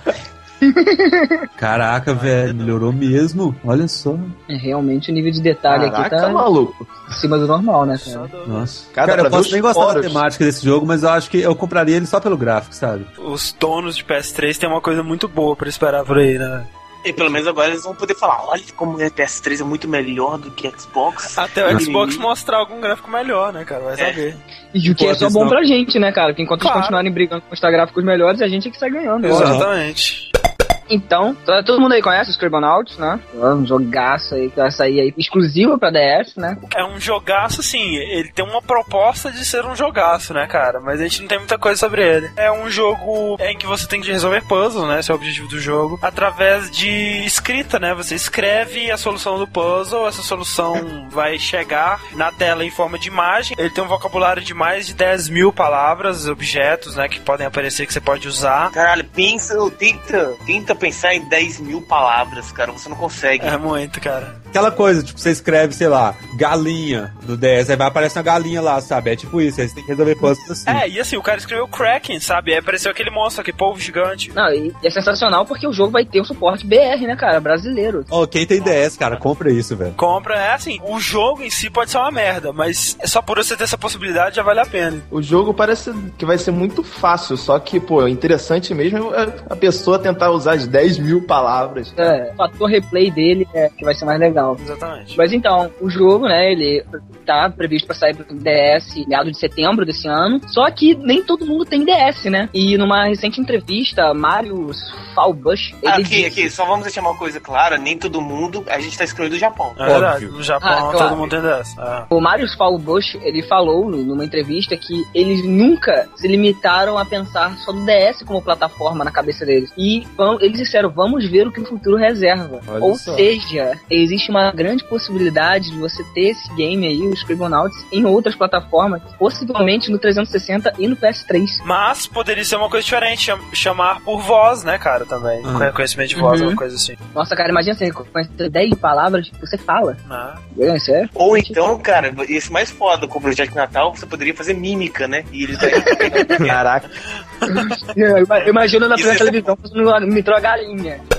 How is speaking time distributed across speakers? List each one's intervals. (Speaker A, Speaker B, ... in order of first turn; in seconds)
Speaker A: 0.6-1.4, 4.5-6.5, 7.1-8.3, 24.7-29.6, 30.9-36.6, 74.3-78.1, 92.0-94.6, 95.2-106.5, 110.6-111.3, 112.1-131.6, 136.2-136.6, 137.2-140.0, 140.6-141.6, 145.7-146.3, 147.5-151.0
Speaker B: 1.6-4.3, 8.5-13.1, 24.8-25.6, 29.3-29.7, 64.5-70.8, 78.1-80.0, 109.8-110.3, 122.7-123.3, 135.4-135.7
Speaker C: 2.1-3.1, 8.0-8.7, 13.2-16.7, 21.3-24.4, 26.6-27.0, 29.2-30.3, 36.7-58.7, 63.4-64.4, 70.7-74.3, 80.0-85.0, 94.6-95.2, 109.8-112.1, 131.6-137.0, 140.1-140.4, 147.4-147.7
Speaker D: 5.7-6.9, 8.9-10.2, 85.1-92.2, 146.4-146.9
Speaker E: 17.0-22.3, 58.7-63.6, 78.6-79.2, 105.8-109.9, 141.2-146.6, 148.9-149.5